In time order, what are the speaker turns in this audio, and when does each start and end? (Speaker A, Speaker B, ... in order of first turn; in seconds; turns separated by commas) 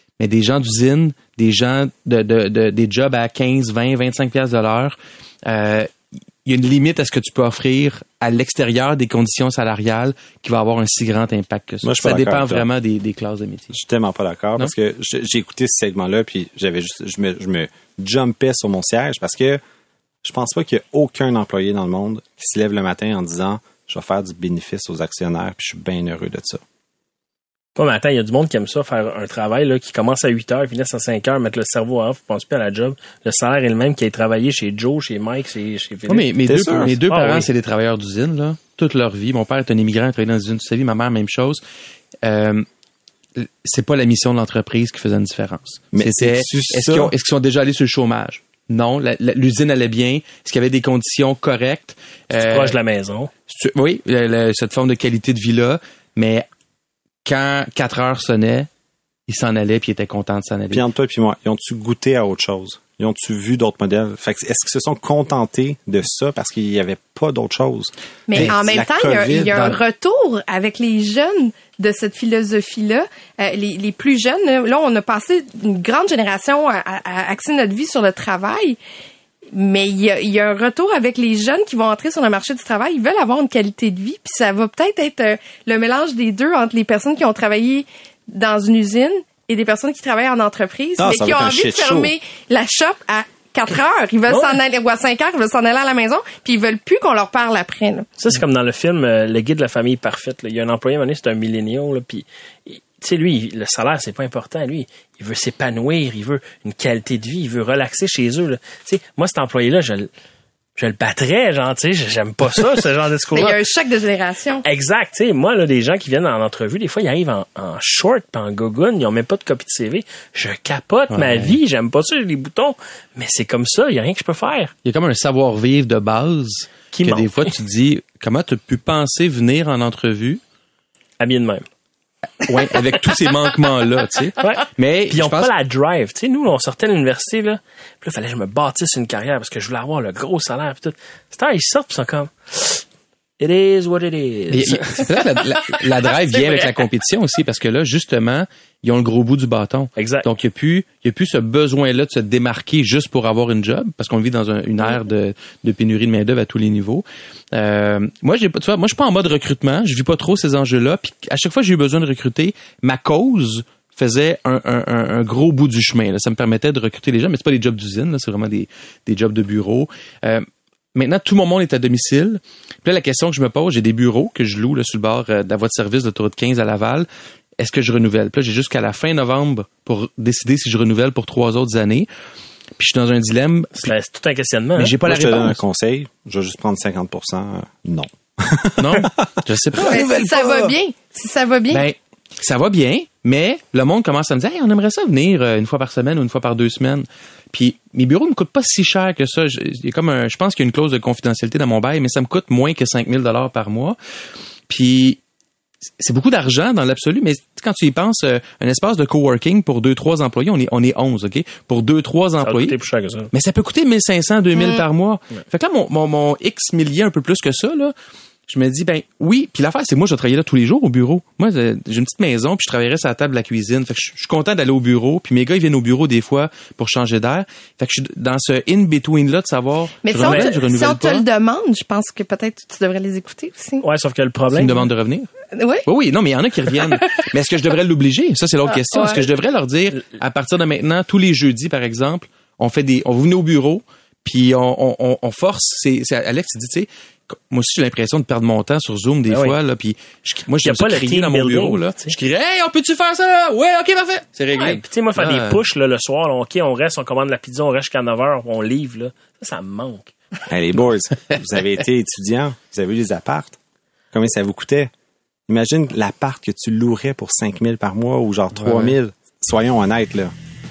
Speaker A: 0.2-13.8, Speaker B: 11.8-12.7, Speaker B: 13.7-19.6, Speaker B: 20.2-26.6, Speaker C: 27.8-37.5, Speaker A: 36.1-41.6, Speaker B: 36.5-37.0, Speaker A: 42.2-42.7, Speaker A: 43.4-52.8, Speaker B: 45.9-47.1, Speaker C: 52.3-53.3, Speaker A: 53.5-56.5, Speaker A: 57.2-58.7, Speaker A: 59.3-60.8, Speaker B: 60.7-69.8, Speaker D: 68.3-78.8, Speaker A: 68.3-68.6, Speaker D: 79.5-98.1, Speaker B: 91.0-92.1, Speaker C: 94.3-94.6, Speaker C: 98.2-110.1, Speaker C: 110.8-113.6, Speaker D: 113.3-114.6, Speaker C: 114.6-124.7, Speaker A: 121.1-121.5, Speaker A: 124.8-130.4, Speaker C: 127.0-127.5, Speaker C: 131.2-131.7, Speaker A: 132.4-135.5, Speaker C: 134.4-142.8, Speaker C: 143.4-146.8, Speaker A: 144.5-177.1, Speaker C: 150.0-150.3, Speaker A: 177.6-182.1, Speaker A: 182.8-183.9, Speaker C: 183.8-185.0, Speaker A: 184.8-185.6, Speaker B: 185.0-190.0, Speaker A: 188.8-190.7, Speaker D: 189.8-191.8, Speaker A: 191.7-204.0, Speaker A: 204.7-205.2, Speaker A: 206.0-212.8, Speaker C: 212.4-213.3, Speaker A: 213.3-217.9, Speaker D: 214.6-214.8, Speaker A: 218.5-231.2, Speaker D: 230.0-233.8, Speaker C: 230.2-230.6, Speaker C: 233.8-234.9, Speaker A: 234.5-235.3, Speaker D: 235.5-235.9, Speaker A: 235.9-255.6, Speaker D: 236.7-237.1, Speaker D: 238.7-239.3, Speaker C: 249.3-249.6, Speaker C: 250.3-252.1, Speaker C: 254.6-260.1, Speaker B: 260.5-263.6, Speaker B: 264.1-264.9, Speaker B: 265.5-270.3, Speaker A: 268.6-268.9